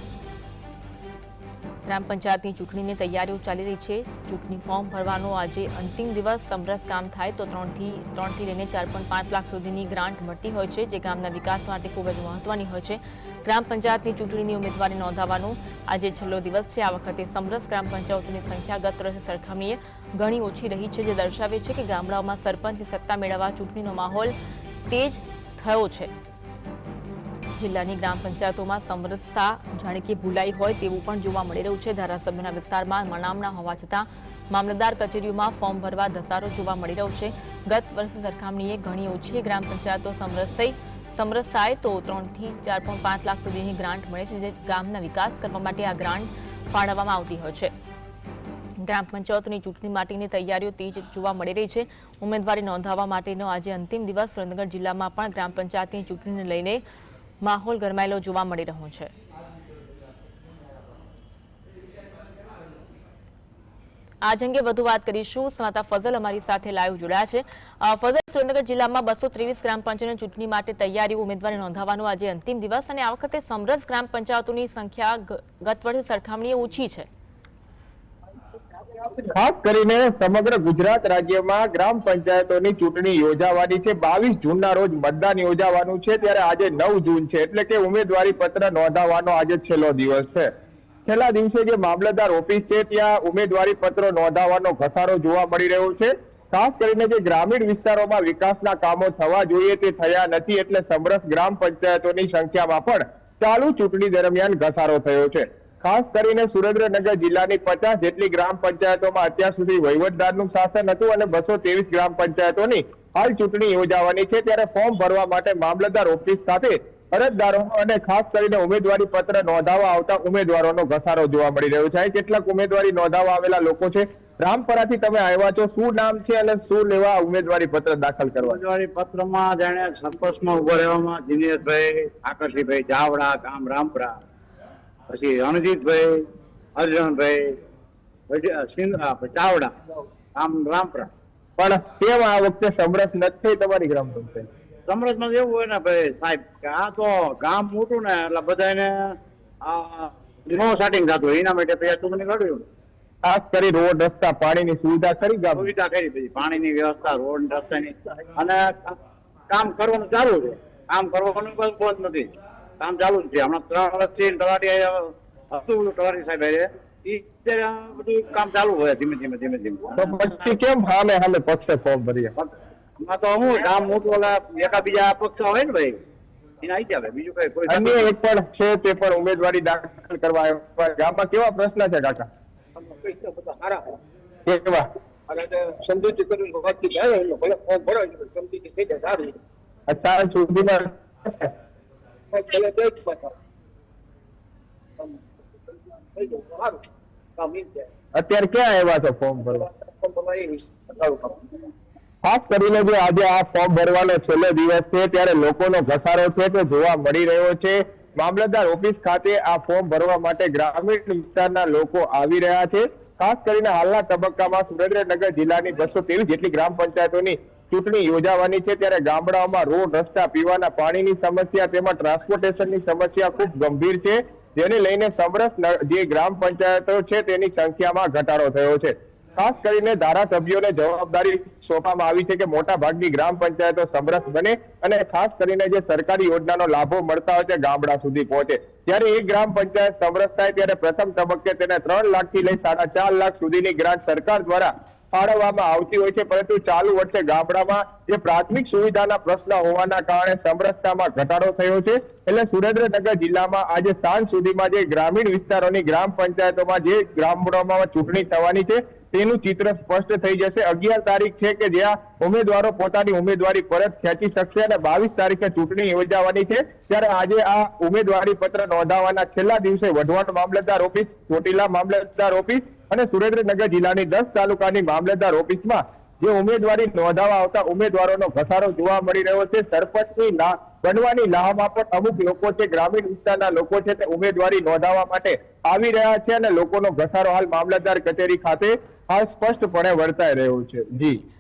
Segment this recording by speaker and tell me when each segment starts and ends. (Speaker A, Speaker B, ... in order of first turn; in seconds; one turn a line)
Speaker A: 1.9-24.3
Speaker A: 24.9-26.1
Speaker A: 27.6-47.7
Speaker A: 48.8-56.8
Speaker A: 57.4-59.1
Speaker A: 64.2-77.1
Speaker B: 79.3-90.5
Speaker B: 91.1-128.6
Speaker C: 128.4-134.2
Speaker C: 135.1-137.6
Speaker C: 138.3-139.8
Speaker C: 140.3-141.1
Speaker B: 141.6-144.5
Speaker C: 144.9-152.7
Speaker B: 153.2-155.7
Speaker C: 155.6-158.9
Speaker C: 159.5-170.4
Speaker B: 170.0-172.3
Speaker C: 172.4-176.0
Speaker C: 176.6-178.1
Speaker B: 177.7-182.3
Speaker D: 182.8-183.9
Speaker B: 184.5-184.9
Speaker D: 185.3-189.3
Speaker B: 189.9-191.5
Speaker D: 192.3-193.3
Speaker D: 195.7-196.8
Speaker D: 197.4-197.9
Speaker B: 198.1-199.7
Speaker D: 199.7-201.4
Speaker B: 202.2-291.2